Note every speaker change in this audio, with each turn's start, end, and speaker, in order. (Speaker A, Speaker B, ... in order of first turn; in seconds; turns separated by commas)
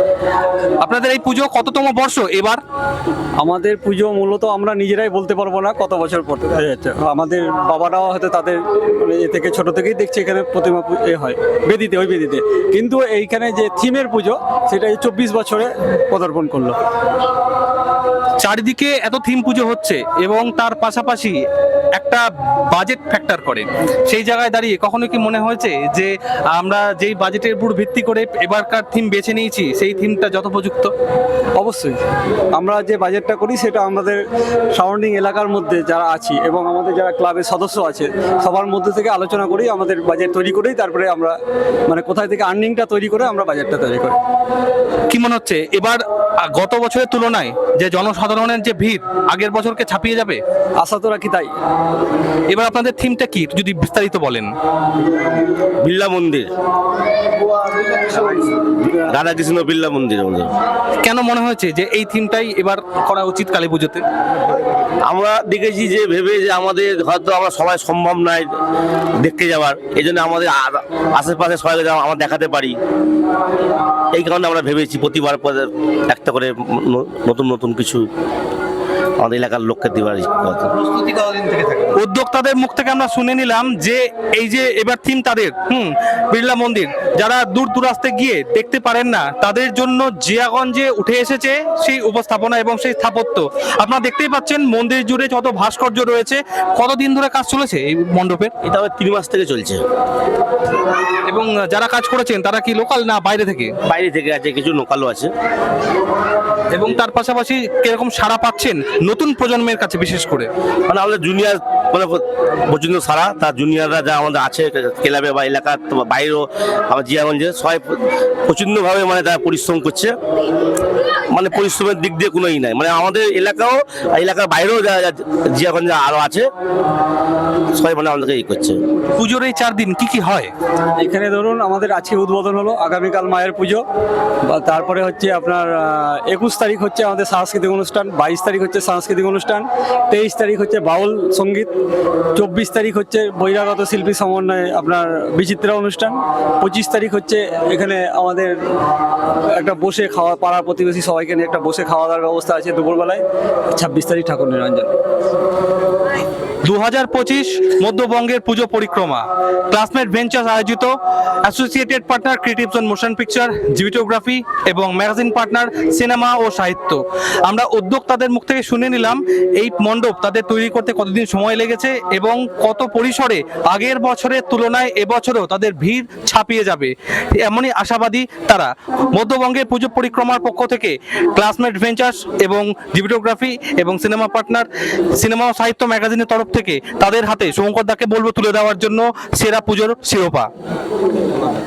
Speaker A: 0.8-2.6, Speaker B: 3.4-16.8, Speaker A: 18.4-21.4, Speaker A: 22.0-30.9, Speaker B: 31.6-32.0, Speaker B: 32.5-34.2, Speaker B: 34.8-44.2, Speaker A: 45.1-50.4, Speaker B: 50.8-51.5, Speaker A: 52.5-54.5, Speaker C: 55.8-56.5, Speaker C: 58.9-60.5, Speaker A: 61.0-64.0, Speaker C: 65.1-68.5, Speaker C: 69.2-72.8, Speaker C: 74.1-78.0, Speaker C: 79.2-80.9, Speaker A: 81.0-98.5, Speaker C: 98.6-99.8, Speaker A: 101.3-103.7, Speaker C: 103.8-105.3, Speaker A: 106.7-110.5, Speaker C: 110.9-120.1, Speaker C: 121.3-126.5, Speaker C: 127.7-128.8, Speaker A: 129.2-130.5, Speaker B: 131.0-133.8, Speaker B: 134.5-141.7, Speaker B: 142.4-148.6, Speaker B: 149.4-154.9, Speaker A: 156.7-190.5